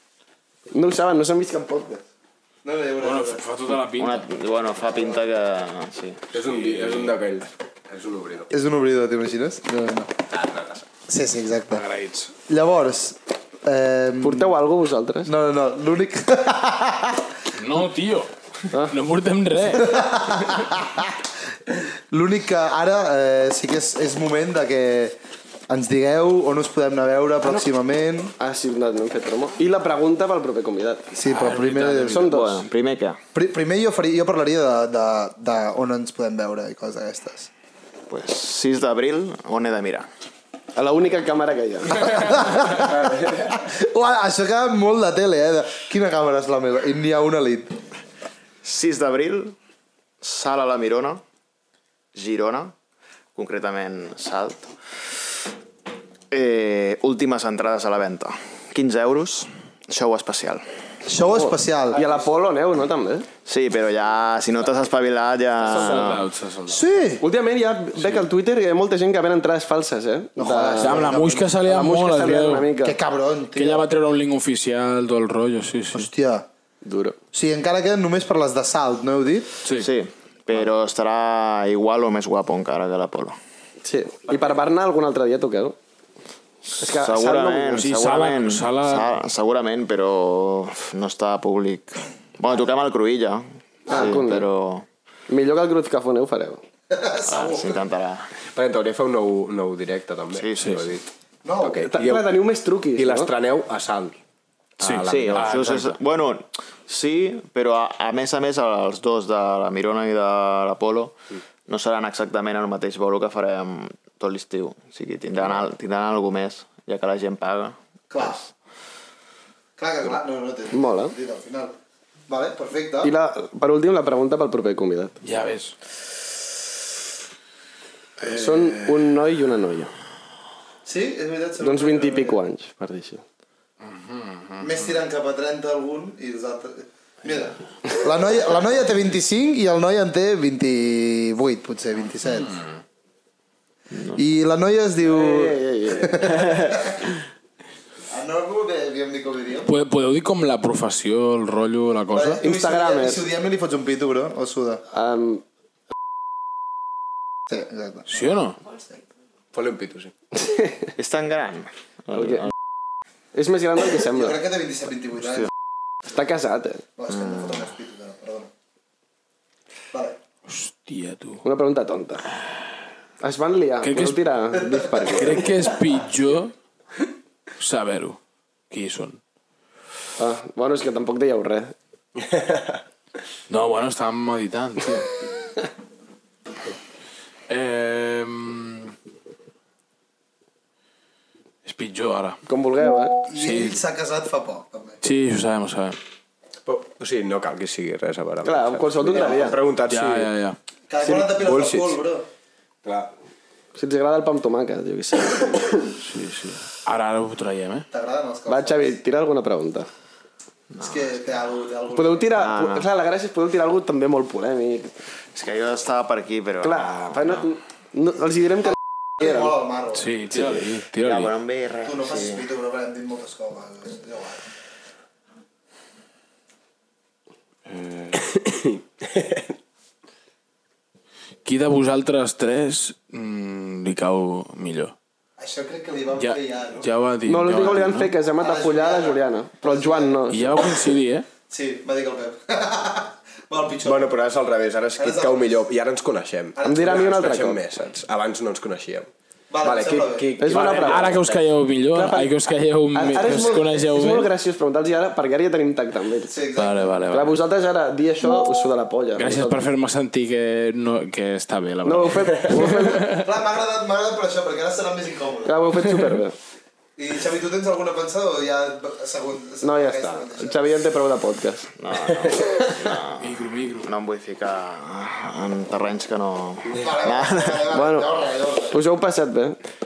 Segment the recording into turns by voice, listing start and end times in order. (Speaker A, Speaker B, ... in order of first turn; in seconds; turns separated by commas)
Speaker A: 0.7-2.0, Speaker B: 2.6-3.4, Speaker C: 3.0-4.2, Speaker D: 4.0-6.2, Speaker B: 4.8-5.2, Speaker E: 6.3-8.5, Speaker C: 6.4-7.1, Speaker B: 8.5-10.1, Speaker E: 10.3-10.8, Speaker B: 11.1-11.8, Speaker C: 11.7-12.3, Speaker B: 12.5-14.6, Speaker A: 14.2-15.3, Speaker B: 15.2-17.3, Speaker C: 17.5-20.0, Speaker A: 18.7-18.9, Speaker B: 19.8-21.1, Speaker B: 22.1-25.1, Speaker B: 25.7-28.3, Speaker A: 27.4-27.7, Speaker A: 28.4-31.1, Speaker B: 31.1-32.3, Speaker C: 31.3-32.6, Speaker A: 32.0-32.7, Speaker D: 32.3-33.2, Speaker B: 33.3-37.5, Speaker D: 38.1-40.1, Speaker A: 40.7-42.3, Speaker B: 42.0-47.8, Speaker E: 42.7-43.6, Speaker D: 48.6-49.5, Speaker D: 50.2-51.2, Speaker D: 52.1-52.7, Speaker D: 53.4-54.7, Speaker D: 56.3-60.6, Speaker B: 61.0-62.0, Speaker A: 61.2-63.2, Speaker D: 63.5-66.2, Speaker A: 65.7-66.2, Speaker C: 65.7-66.8, Speaker B: 66.7-67.2, Speaker A: 67.2-73.0, Speaker B: 70.4-71.5, Speaker C: 70.8-72.7, Speaker B: 72.8-73.9, Speaker C: 73.5-76.1, Speaker B: 75.9-76.5, Speaker A: 76.8-77.2, Speaker B: 77.3-79.5, Speaker C: 79.6-79.9, Speaker D: 79.7-83.4, Speaker A: 83.8-85.8, Speaker A: 86.8-87.8, Speaker D: 86.8-94.9, Speaker C: 87.7-89.1, Speaker A: 93.9-94.5, Speaker A: 95.3-96.6, Speaker B: 96.9-97.8, Speaker D: 97.3-98.3, Speaker E: 98.5-101.0, Speaker D: 100.3-100.8, Speaker B: 101.5-101.8, Speaker E: 101.6-102.3, Speaker A: 101.8-103.3, Speaker E: 103.0-104.2, Speaker C: 104.8-105.9, Speaker E: 104.8-106.0, Speaker D: 104.9-111.1, Speaker D: 111.7-118.4, Speaker B: 118.1-118.4, Speaker B: 119.8-121.7, Speaker A: 120.7-121.1, Speaker B: 122.3-123.1, Speaker A: 123.0-125.2, Speaker C: 125.2-125.7, Speaker A: 128.2-129.9, Speaker B: 130.8-132.4, Speaker A: 131.6-133.2, Speaker C: 133.8-134.7, Speaker B: 134.6-142.6, Speaker C: 142.4-142.8, Speaker B: 144.1-147.2, Speaker A: 145.0-146.4, Speaker D: 146.4-146.7, Speaker B: 148.1-149.7, Speaker C: 149.7-152.4, Speaker B: 152.1-154.8, Speaker A: 152.4-153.2, Speaker A: 154.9-155.4, Speaker B: 157.5-158.9, Speaker C: 158.1-158.6, Speaker E: 159.5-160.1, Speaker A: 160.3-160.9, Speaker D: 161.0-162.3, Speaker A: 162.1-162.5, Speaker A: 163.3-164.4, Speaker B: 164.1-165.5, Speaker A: 166.0-166.8, Speaker B: 167.0-168.5, Speaker B: 169.9-170.2, Speaker C: 170.5-171.4, Speaker A: 171.4-172.3, Speaker A: 173.2-175.5, Speaker C: 173.8-174.2, Speaker C: 175.0-176.5, Speaker C: 177.6-178.2, Speaker C: 178.7-179.2, Speaker A: 180.2-181.7, Speaker E: 182.3-182.7, Speaker C: 183.5-185.1, Speaker C: 187.5-188.9, Speaker C: 191.6-192.4, Speaker A: 192.5-193.2, Speaker B: 193.3-195.0, Speaker C: 193.3-193.8, Speaker C: 195.0-196.0, Speaker E: 196.7-200.3, Speaker A: 198.4-199.6, Speaker B: 199.2-199.5, Speaker C: 199.9-200.6, Speaker B: 200.9-202.2, Speaker E: 201.0-202.0, Speaker E: 202.8-203.1, Speaker A: 203.7-205.9, Speaker C: 206.0-207.9, Speaker B: 207.9-208.9, Speaker A: 208.5-209.9, Speaker B: 210.8-212.5, Speaker A: 211.9-214.9, Speaker D: 215.3-217.4, Speaker A: 216.6-219.6, Speaker B: 219.2-220.0, Speaker C: 219.9-221.3, Speaker D: 220.4-222.4, Speaker B: 221.8-224.4, Speaker C: 227.7-228.1, Speaker E: 228.2-229.5, Speaker C: 231.4-234.9, Speaker B: 235.4-236.9, Speaker C: 236.2-238.1, Speaker A: 237.2-240.6, Speaker B: 238.4-240.3, Speaker C: 240.3-241.3, Speaker B: 241.5-244.1, Speaker E: 243.8-249.1, Speaker B: 245.0-245.5, Speaker B: 246.6-247.2, Speaker A: 246.6-247.6, Speaker B: 249.5-250.3, Speaker E: 249.6-251.4, Speaker A: 250.4-251.4, Speaker C: 250.5-254.3, Speaker A: 251.9-252.4, Speaker A: 252.9-256.4, Speaker B: 253.0-253.6, Speaker B: 256.3-257.0, Speaker C: 256.6-257.4, Speaker A: 257.1-259.6, Speaker C: 259.2-263.3, Speaker A: 261.8-263.1, Speaker B: 263.1-265.5, Speaker A: 265.4-266.3, Speaker B: 267.0-270.7, Speaker A: 269.6-271.7, Speaker D: 271.8-277.7, Speaker C: 273.2-273.9, Speaker B: 276.8-278.8, Speaker A: 277.7-278.1, Speaker A: 278.7-279.6